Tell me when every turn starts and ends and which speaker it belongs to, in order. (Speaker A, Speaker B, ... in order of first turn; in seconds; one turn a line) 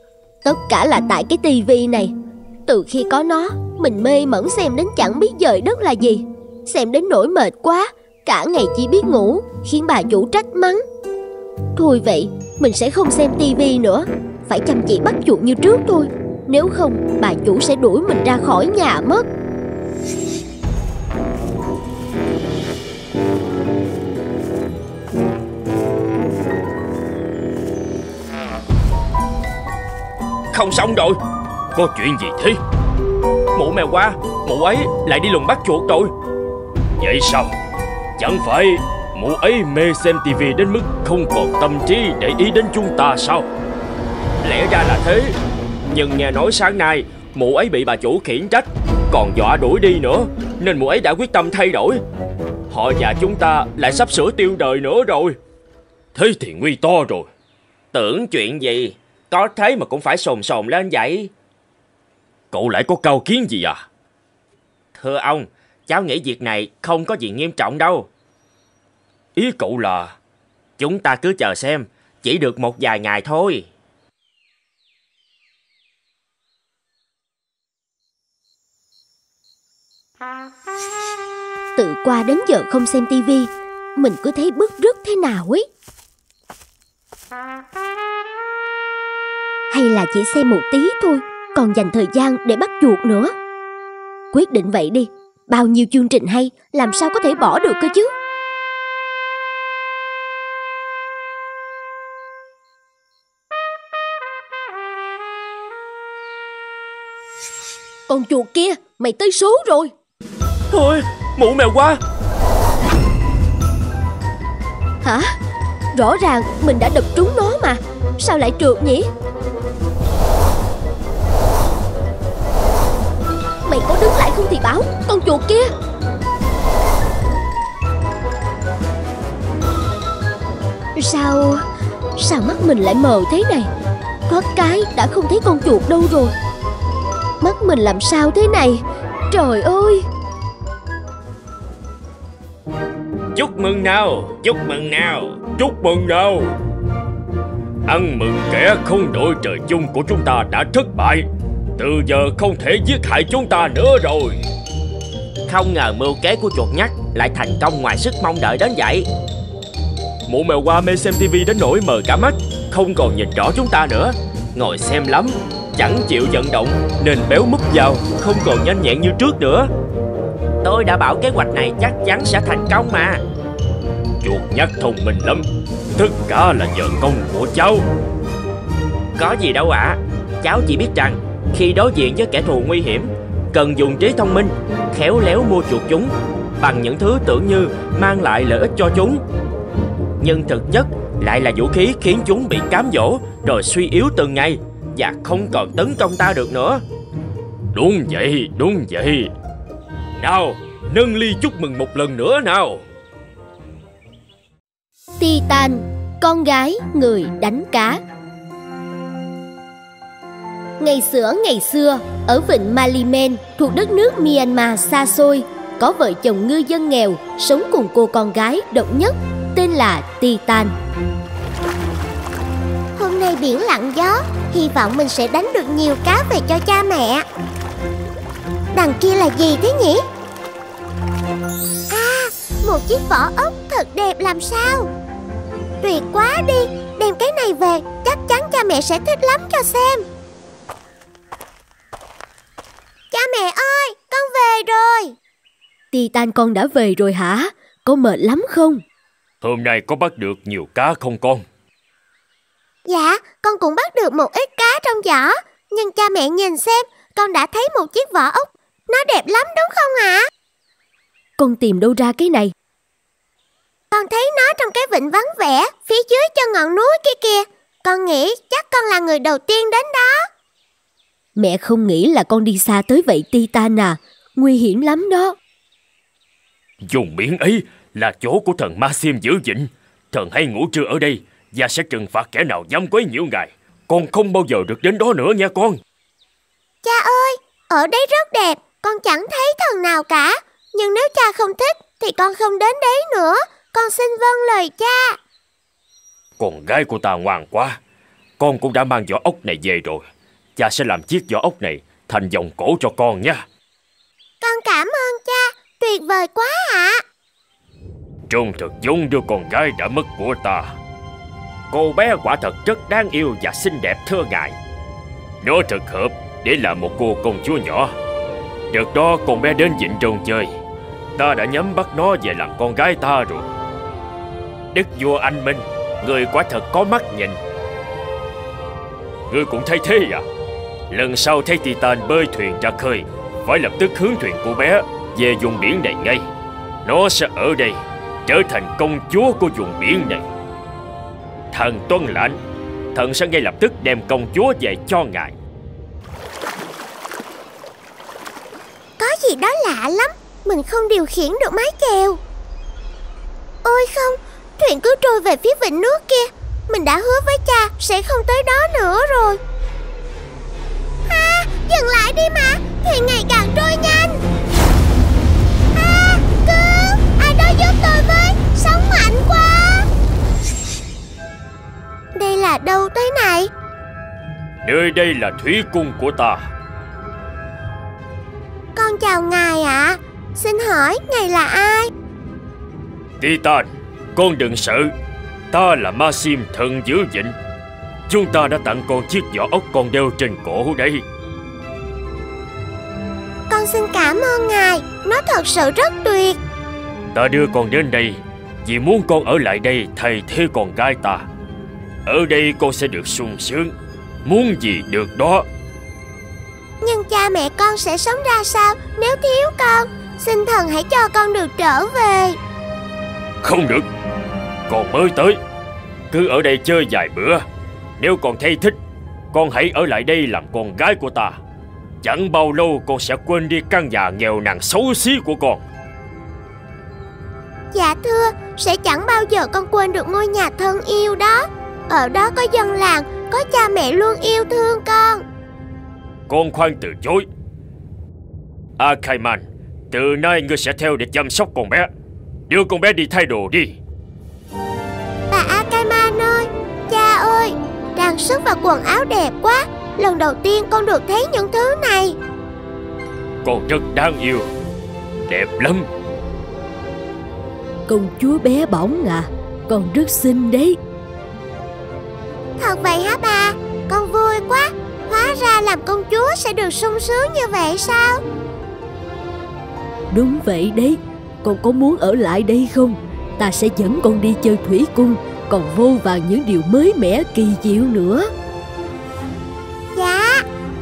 Speaker A: 0.4-2.1
Speaker A: 2.7-10.8
Speaker A: 11.8-19.2
Speaker B: 30.5-31.2
Speaker C: 31.8-32.6
Speaker B: 33.5-36.1
Speaker C: 37.0-37.5
Speaker C: 38.2-43.5
Speaker B: 44.4-45.3
Speaker C: 44.4-45.3
Speaker C: 45.9-52.0
Speaker C: 52.7-55.4
Speaker C: 56.1-57.3
Speaker B: 57.9-61.3
Speaker C: 62.5-63.8
Speaker B: 64.9-68.1
Speaker C: 69.4-70.1
Speaker B: 70.8-73.7
Speaker A: 81.8-85.6
Speaker A: 89.7-93.3
Speaker A: 94.3-98.1
Speaker A: 108.1-109.9
Speaker B: 110.7-112.0
Speaker C: 110.8-111.8
Speaker A: 115.0-115.3
Speaker A: 116.0-119.1
Speaker A: 123.7-125.7
Speaker A: 131.0-131.6
Speaker A: 132.2-133.7
Speaker A: 134.3-136.3
Speaker A: 137.4-140.1
Speaker C: 143.4-144.3
Speaker B: 143.4-145.4
Speaker C: 145.4-146.5
Speaker C: 147.9-151.2
Speaker C: 151.8-154.4
Speaker B: 155.5-159.1
Speaker C: 160.3-163.7
Speaker B: 163.5-166.9
Speaker C: 164.7-165.1
Speaker C: 166.8-169.4
Speaker B: 168.1-169.7
Speaker B: 170.6-173.2
Speaker C: 174.2-177.8
Speaker B: 179.2-189.2
Speaker B: 190.2-196.8
Speaker C: 197.7-199.3
Speaker C: 200.2-202.8
Speaker A: 205.2-208.0
Speaker A: 210.8-220.7
Speaker D: 222.9-227.2
Speaker D: 228.7-230.0
Speaker D: 231.9-234.9
Speaker D: 235.8-240.0
Speaker D: 243.1-245.1
Speaker A: 245.9-248.8
Speaker C: 249.4-251.4
Speaker D: 252.9-260.3
Speaker A: 261.4-262.5
Speaker D: 263.9-270.2
Speaker A: 271.4-275.4
Speaker C: 276.9-285.8
Speaker D: 286.8-295.2
Speaker C: 296.4-297.8
Speaker C: 298.4-303.4
Speaker D: 304.4-307.0
Speaker C: 308.3-310.7
Speaker C: 311.7-314.6
Speaker C: 315.4-317.9
Speaker C: 318.7-320.5
Speaker C: 321.1-323.5
Speaker C: 324.7-327.4
Speaker C: 329.3-330.2
Speaker C: 330.9-336.3
Speaker C: 336.9-340.2
Speaker C: 341.5-342.4
Speaker C: 342.9-345.4
Speaker D: 349.0-352.2
Speaker D: 353.6-359.4
Speaker D: 361.1-364.2
Speaker D: 365.7-369.9
Speaker D: 372.1-373.5
Speaker C: 374.6-376.4
Speaker D: 378.7-381.9
Speaker C: 383.2-384.9
Speaker C: 385.5-387.4
Speaker C: 388.1-391.0
Speaker D: 393.5-396.4
Speaker C: 397.1-401.2
Speaker C: 402.1-403.7
Speaker C: 404.2-405.4
Speaker D: 406.8-412.4
Speaker C: 413.4-413.9
Speaker C: 414.7-415.4
Speaker C: 416.1-417.4
Speaker C: 418.0-418.8
Speaker C: 419.3-421.4
Speaker C: 422.0-425.6
Speaker D: 427.7-435.2
Speaker C: 436.3-437.2
Speaker C: 438.8-441.9
Speaker C: 442.5-443.8
Speaker D: 445.3-452.2
Speaker C: 453.4-454.5
Speaker C: 455.3-455.9
Speaker A: 457.9-460.8
Speaker D: 462.6-468.2
Speaker A: 470.1-478.3
Speaker D: 479.9-480.4